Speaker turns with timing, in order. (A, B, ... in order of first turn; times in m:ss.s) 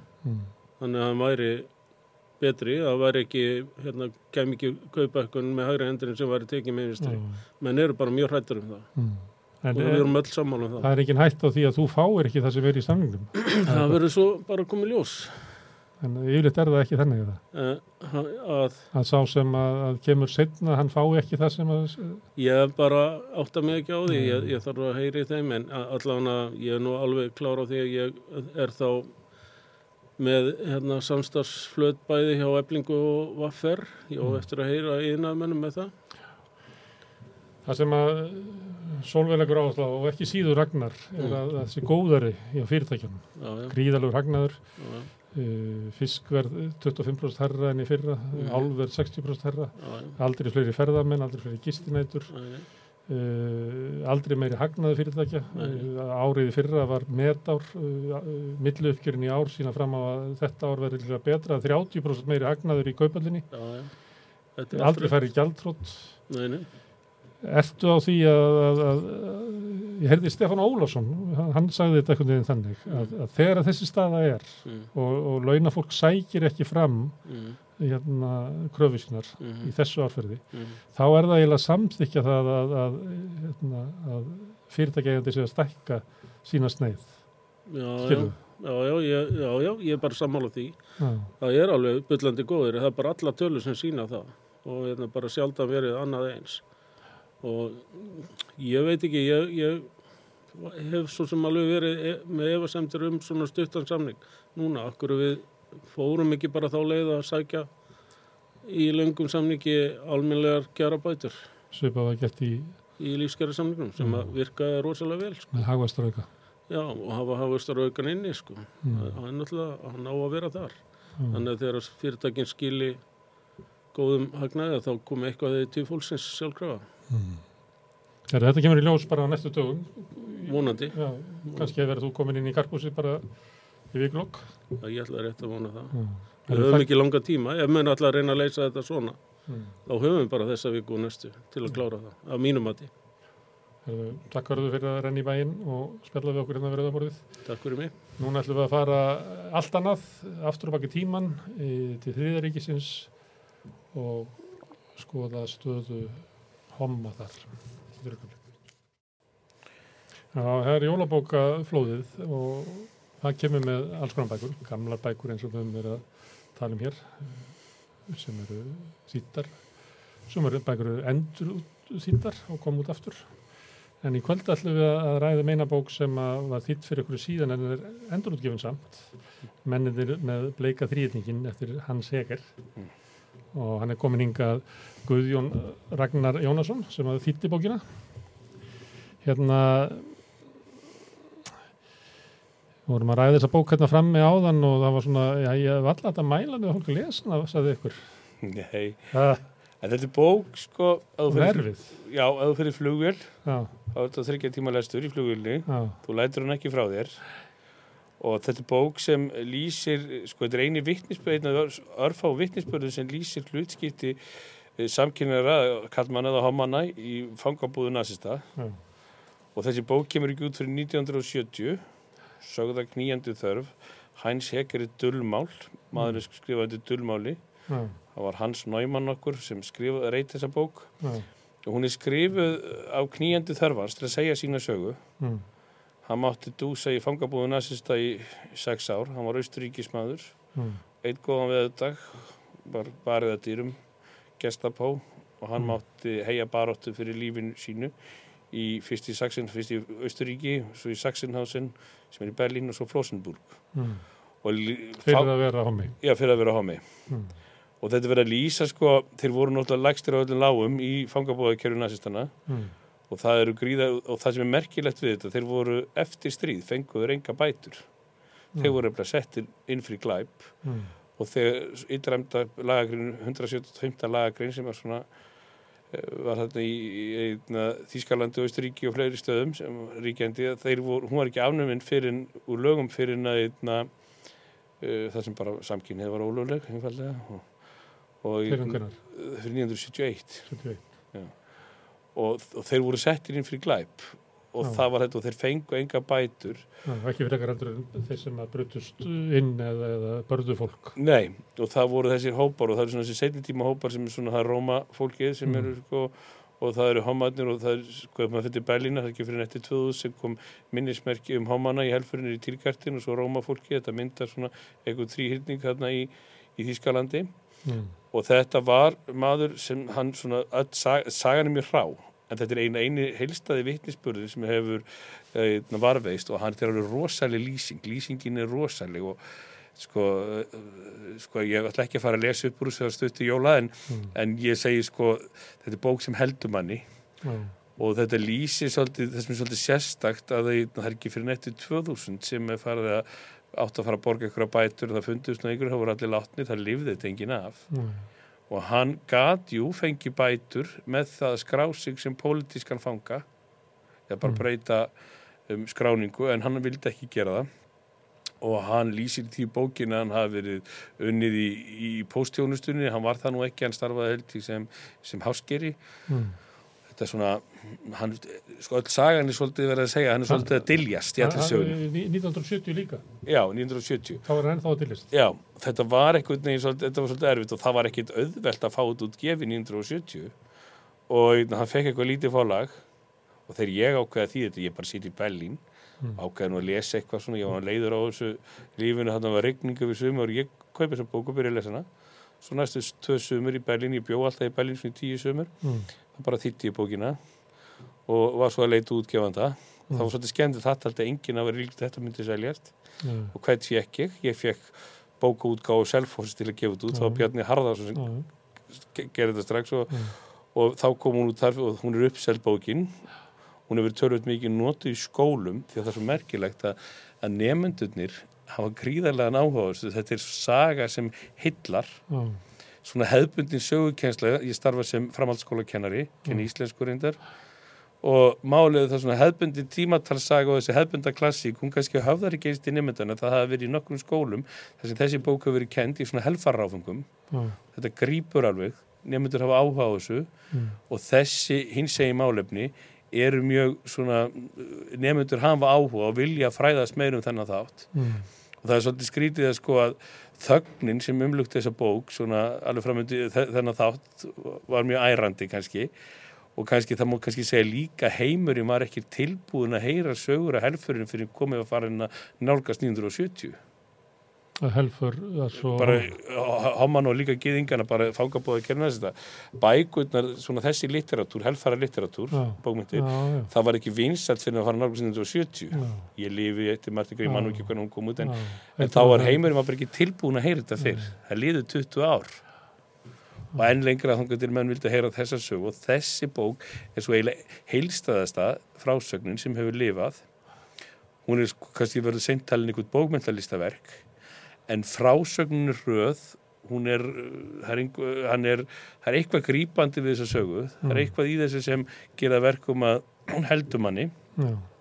0:00.2-0:00.5 A
0:00.8-0:10.9 B
0:07.0-0:07.4 A
0:09.0-0:14.0 A
0:13.6-0:15.6 B
0:16.0-0:17.4 A
0:17.5-0:18.9 B
0:18.9-0:22.2 A
0:22.4-0:29.6 B
0:24.1-0:24.6 A
0:30.2-0:35.9 B
0:34.2-0:34.4 A
0:37.6-1:03.9 A
0:41.2-0:41.4 B
0:43.4-0:44.0 B
0:44.8-0:45.1 B
0:48.3-0:48.9 B
0:49.8-0:50.2 B
0:52.3-0:52.7 B
0:55.5-0:55.9 B
1:03.5-1:05.5 B
1:04.7-1:06.3 A
1:06.3-1:06.7 B
1:07.4-1:28.4 A
1:12.8-1:13.1 B
1:14.6-1:14.9 B
1:17.2-1:17.6 B
1:19.4-1:19.7 B
1:20.5-1:20.8 B
1:27.6-1:51.5 B
1:31.0-1:31.3 A
1:51.7-1:52.8 A
1:53.0-1:55.9 B
1:54.0-1:54.4 A
1:55.5-1:56.3 A
1:56.7-2:06.8 B
1:58.8-1:59.2 A
2:01.2-2:01.4 A
2:07.1-2:14.6 A
2:10.4-2:11.7 B
2:14.7-2:22.9 B
2:15.9-2:16.9 A
2:19.5-2:19.7 A
2:23.8-2:33.3 A
2:27.4-2:27.9 B
2:33.9-2:38.4 A
2:40.3-3:02.5 A
3:03.5-3:07.8 A
3:09.2-3:10.2 A
3:12.8-3:18.2 A
3:18.4-3:19.1 C
3:19.1-3:19.4 A
3:19.8-3:27.5 C
3:21.3-3:22.0 A
3:23.4-3:23.7 A
3:25.7-3:26.0 A
3:28.2-3:38.9 C
3:38.6-3:38.8 A
3:39.5-3:55.2 C
3:45.9-3:46.2 A
3:47.7-3:48.0 A
3:51.0-3:51.3 A
3:56.0-4:35.1 C
4:00.5-4:00.8 A
4:13.7-4:14.4 A
4:15.0-4:16.0 A
4:17.1-4:17.4 A
4:22.5-4:22.7 A
4:30.6-4:30.9 A
4:35.9-4:56.7 C
4:48.5-4:49.0 A
4:50.5-4:50.9 A
4:56.8-5:01.0 A
5:01.0-5:29.2 C
5:05.4-5:05.7 A
5:17.6-5:17.9 A
5:29.7-5:47.8 C
5:33.9-5:34.1 A
5:37.2-5:37.5 A
5:47.7-5:48.1 A
5:48.5-5:53.2 C
5:54.1-5:54.9 C
5:55.4-5:57.7 C
5:58.4-6:05.8 C
6:06.1-6:06.4 A
6:06.9-6:11.8 C
6:10.2-6:10.6 A
6:11.2-6:13.0 A
6:13.2-6:14.2 C
6:14.2-6:15.1 A
6:15.1-6:20.4 C
6:21.1-6:22.8 C
6:23.4-6:53.1 C
6:35.6-6:35.9 A
6:43.0-6:43.3 A
6:46.9-6:48.2 A
6:53.6-7:02.1 C
7:02.1-7:02.4 A
7:02.8-7:07.4 C
7:08.0-7:35.9 C
7:17.3-7:17.6 A
7:20.5-7:20.8 A
7:27.9-7:28.3 A
7:36.5-7:43.6 C
7:44.6-7:46.1 A
7:45.7-8:02.5 C
7:52.3-7:53.5 A
7:55.7-7:56.1 A
7:57.2-7:59.4 A
8:00.8-8:01.1 A
8:03.5-8:10.3 C
8:11.2-8:14.1 C
8:14.7-8:24.1 C
8:20.8-8:21.1 A
8:24.4-8:24.7 A